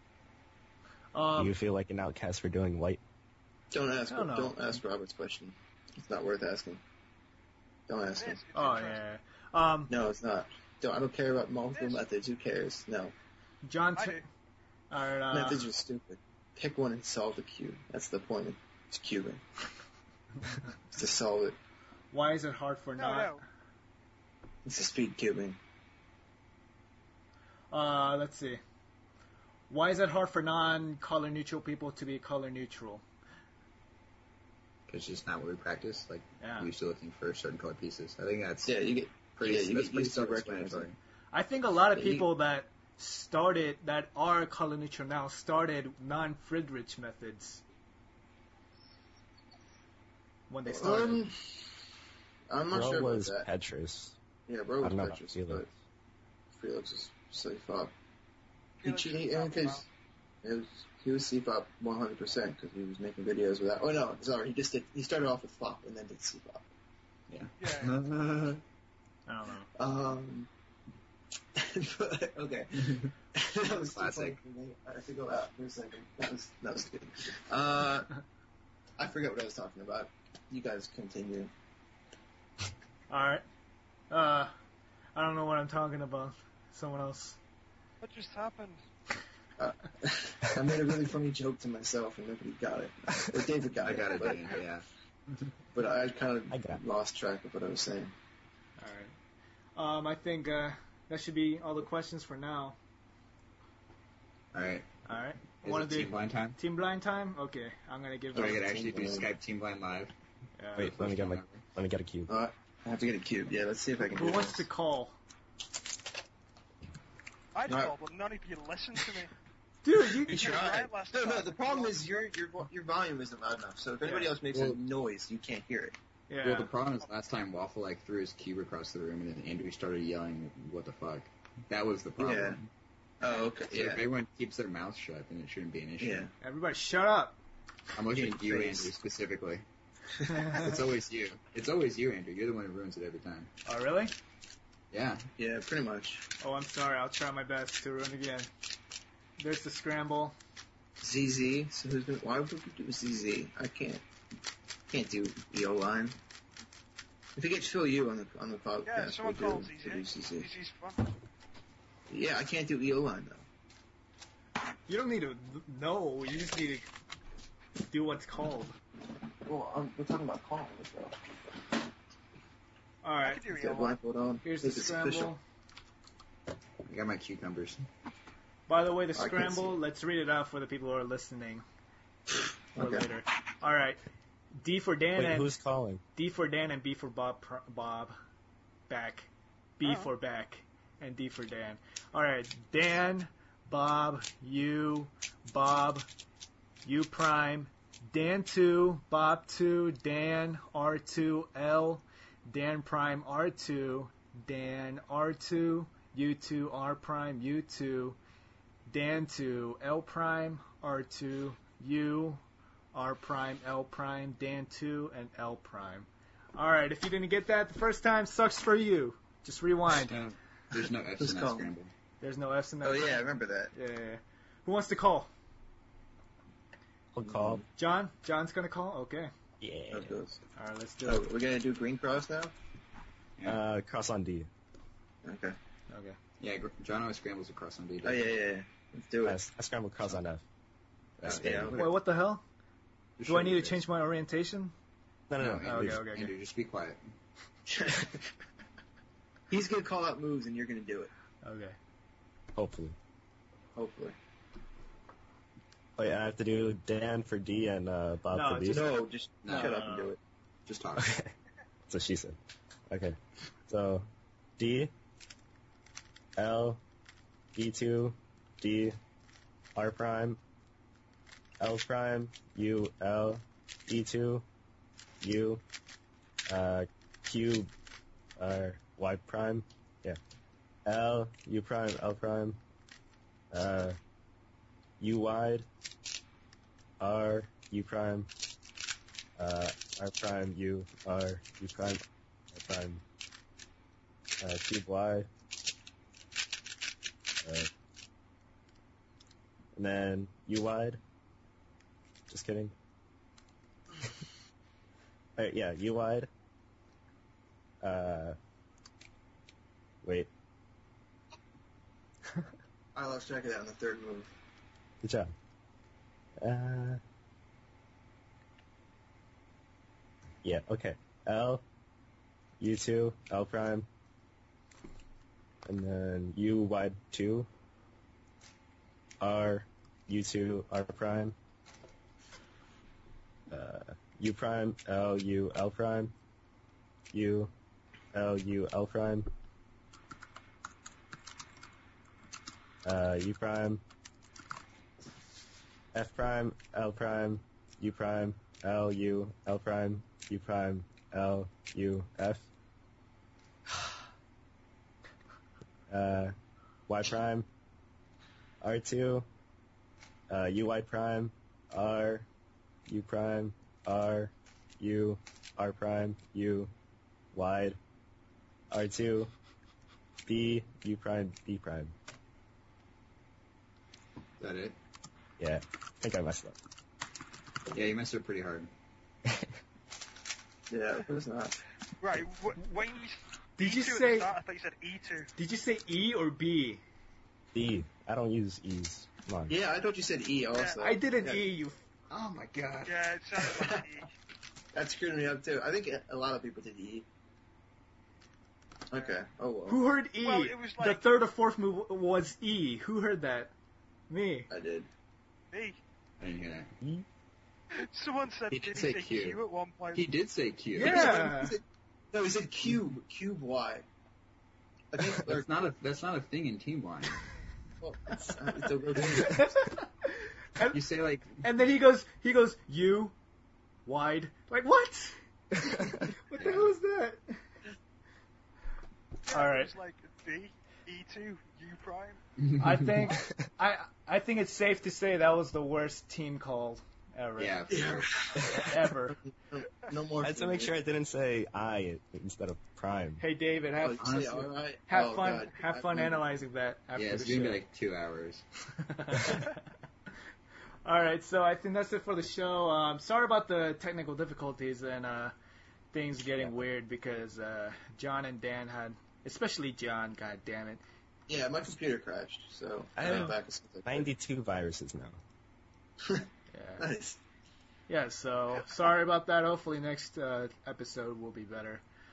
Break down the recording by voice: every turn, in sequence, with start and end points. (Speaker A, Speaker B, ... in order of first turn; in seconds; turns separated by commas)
Speaker A: 1.1-1.6, Speaker B: 1.4-3.0, Speaker C: 3.7-6.8, Speaker A: 4.1-4.6, Speaker C: 7.9-8.4, Speaker D: 8.2-9.0, Speaker A: 8.6-9.9, Speaker C: 9.9-13.1, Speaker D: 11.8-12.0, Speaker A: 13.6-14.3, Speaker D: 13.9-14.2, Speaker A: 14.9-15.7, Speaker C: 15.3-19.4, Speaker C: 20.9-21.6, Speaker A: 22.1-23.4, Speaker D: 23.0-23.4, Speaker C: 24.6-25.6, Speaker A: 27.7-28.6, Speaker A: 29.7-33.0, Speaker E: 34.9-38.8, Speaker A: 36.4-36.7, Speaker C: 38.6-40.9, Speaker E: 39.3-41.0, Speaker A: 41.3-47.6, Speaker C: 41.9-42.3, Speaker A: 50.5-51.2, Speaker C: 50.7-51.7, Speaker C: 52.5-53.5, Speaker B: 52.7-54.1, Speaker C: 54.5-55.7, Speaker B: 54.8-55.7, Speaker C: 56.5-57.9, Speaker D: 58.8-59.8, Speaker C: 58.8-59.9, Speaker C: 60.4-66.7, Speaker E: 67.3-68.6, Speaker D: 67.6-68.0, Speaker A: 69.3-69.7, Speaker C: 69.8-70.5, Speaker C: 71.5-78.1, Speaker E: 73.8-74.4, Speaker C: 79.0-81.5, Speaker A: 83.1-83.4, Speaker A: 84.1-84.5, Speaker A: 85.2-87.4, Speaker D: 88.0-88.8, Speaker C: 89.6-94.6, Speaker E: 93.8-95.5, Speaker C: 95.8-98.1, Speaker B: 96.5-96.8, Speaker A: 98.8-99.2, Speaker A: 99.8-102.8, Speaker E: 104.5-105.1, Speaker A: 105.1-108.7, Speaker E: 105.6-106.6, Speaker E: 108.3-110.2, Speaker C: 108.5-109.3, Speaker A: 110.6-110.9, Speaker B: 110.8-112.3, Speaker E: 110.8-111.7, Speaker C: 112.3-114.7, Speaker A: 114.1-115.2, Speaker D: 117.5-119.3, Speaker C: 117.7-117.9, Speaker A: 119.8-120.5, Speaker C: 120.2-126.0, Speaker D: 120.3-122.0, Speaker A: 124.0-124.3, Speaker E: 124.5-124.8, Speaker A: 126.3-126.7, Speaker E: 126.4-132.7, Speaker C: 132.2-132.6, Speaker C: 133.2-134.0, Speaker E: 133.4-136.3, Speaker C: 136.0-136.3, Speaker A: 136.4-137.4, Speaker E: 137.9-139.7, Speaker C: 138.1-138.9, Speaker A: 140.2-140.8, Speaker E: 140.5-143.5, Speaker A: 143.7-144.1, Speaker E: 144.9-145.3, Speaker C: 145.4-146.2, Speaker A: 146.4-148.5, Speaker A: 149.4-150.3, Speaker C: 151.0-154.0, Speaker C: 154.9-156.2, Speaker C: 157.4-160.5, Speaker D: 158.9-161.0, Speaker C: 162.1-163.5, Speaker A: 164.9-166.9, Speaker A: 167.8-168.8, Speaker C: 169.4-171.2, Speaker A: 173.0-173.4, Speaker D: 173.2-174.0, Speaker C: 173.5-175.3, Speaker A: 174.4-175.4, Speaker E: 176.9-177.9, Speaker A: 178.7-181.7, Speaker C: 179.2-179.8, Speaker C: 182.8-183.1, Speaker A: 182.8-184.0, Speaker A: 184.6-185.5, Speaker B: 185.2-186.0, Speaker A: 186.2-188.2, Speaker A: 188.9-196.1, Speaker D: 189.8-190.1, Speaker A: 196.8-208.2, Speaker A: 208.9-212.4, Speaker A: 212.9-220.2, Speaker E: 220.1-221.9, Speaker C: 221.2-221.7, Speaker A: 222.2-225.3, Speaker C: 222.8-223.7, Speaker B: 227.1-227.6, Speaker C: 227.2-227.6, Speaker A: 227.8-229.3, Speaker B: 229.6-230.1, Speaker C: 229.9-230.4, Speaker A: 230.6-231.3, Speaker C: 231.0-232.5, Speaker B: 233.4-234.5, Speaker C: 235.2-235.6, Speaker A: 235.9-236.2, Speaker E: 236.4-238.4, Speaker C: 238.0-239.4, Speaker B: 239.2-240.4, Speaker B: 241.2-241.8, Speaker E: 241.2-241.8, Speaker C: 241.2-241.9, Speaker A: 241.8-242.4, Speaker E: 243.2-243.8, Speaker A: 243.3-244.7, Speaker B: 245.3-246.1, Speaker E: 245.4-247.0, Speaker A: 245.6-246.3, Speaker C: 247.7-248.2, Speaker C: 249.5-251.1, Speaker A: 251.4-251.8, Speaker B: 252.6-253.0, Speaker C: 253.8-254.2, Speaker B: 256.0-259.0, Speaker A: 258.3-260.2, Speaker C: 258.7-260.2, Speaker E: 259.4-259.8, Speaker E: 260.7-261.1, Speaker B: 261.0-261.3, Speaker B: 261.9-262.4, Speaker B: 262.9-263.2, Speaker B: 263.7-264.1, Speaker B: 264.6-264.9, Speaker B: 266.4-266.8, Speaker B: 267.6-269.0, Speaker B: 269.8-270.4, Speaker B: 271.6-274.4, Speaker B: 275.2-275.6, Speaker B: 276.5-277.7, Speaker B: 278.4-280.2, Speaker B: 280.9-282.6, Speaker B: 283.5-284.0, Speaker B: 285.0-285.7, Speaker B: 287.0-288.3, Speaker B: 289.4-292.0, Speaker B: 292.5-293.0, Speaker B: 294.4-295.3, Speaker B: 297.4-297.7, Speaker B: 299.8-301.0, Speaker B: 302.3-302.7, Speaker B: 305.4-306.3, Speaker B: 307.8-308.4, Speaker B: 310.0-310.3, Speaker C: 312.9-314.3, Speaker B: 315.0-315.3, Speaker B: 316.4-317.0, Speaker B: 320.4-321.6, Speaker B: 322.6-323.9, Speaker B: 325.7-327.5, Speaker B: 329.2-331.4, Speaker B: 333.5-336.1, Speaker B: 337.1-337.5, Speaker B: 338.1-339.3, Speaker B: 342.8-343.8, Speaker B: 345.9-352.5, Speaker B: 355.9-356.3, Speaker B: 356.9-357.5, Speaker B: 358.6-359.3, Speaker B: 360.3-362.3, Speaker B: 362.9-366.7, Speaker B: 367.3-367.8, Speaker B: 368.7-369.3, Speaker B: 370.3-371.9, Speaker E: 374.4-374.8, Speaker B: 375.4-376.6, Speaker E: 377.7-378.7, Speaker C: 380.7-381.6, Speaker D: 382.0-385.3, Speaker A: 383.6-384.3, Speaker A: 385.4-386.8, Speaker B: 387.5-389.6, Speaker C: 389.5-391.4, Speaker D: 390.5-390.8, Speaker A: 390.8-391.8, Speaker E: 392.1-392.9, Speaker D: 392.9-394.1, Speaker C: 394.7-397.1, Speaker C: 398.9-399.8, Speaker A: 399.7-403.5, Speaker D: 400.2-401.0, Speaker A: 404.1-404.5, Speaker C: 404.5-404.9, Speaker D: 405.5-405.8, Speaker E: 406.2-406.7, Speaker D: 407.8-410.1, Speaker E: 408.5-409.4, Speaker E: 409.9-411.1, Speaker A: 410.8-411.6, Speaker C: 410.8-413.9, Speaker C: 414.9-415.5, Speaker E: 415.0-417.2, Speaker C: 417.8-419.5, Speaker A: 419.0-420.8, Speaker E: 420.7-421.5, Speaker A: 421.4-423.1, Speaker A: 423.9-427.4, Speaker E: 426.4-426.7, Speaker A: 429.3-429.7, Speaker D: 429.3-432.2, Speaker E: 432.4-432.8, Speaker A: 432.6-437.8, Speaker E: 437.4-438.2, Speaker C: 437.7-438.5, Speaker B: 438.4-438.7, Speaker A: 438.4-439.2, Speaker C: 439.3-440.7, Speaker B: 440.2-443.2, Speaker A: 443.2-447.6, Speaker C: 443.8-446.2, Speaker E: 444.0-444.5, Speaker E: 447.0-448.4, Speaker A: 448.8-449.6, Speaker A: 450.9-455.3, Speaker A: 455.9-460.8, Speaker C: 461.3-464.1, Speaker B: 463.0-463.3, Speaker A: 463.1-463.3, Speaker B: 463.9-465.2, Speaker A: 466.5-466.9, Speaker C: 466.8-467.2, Speaker A: 467.9-471.8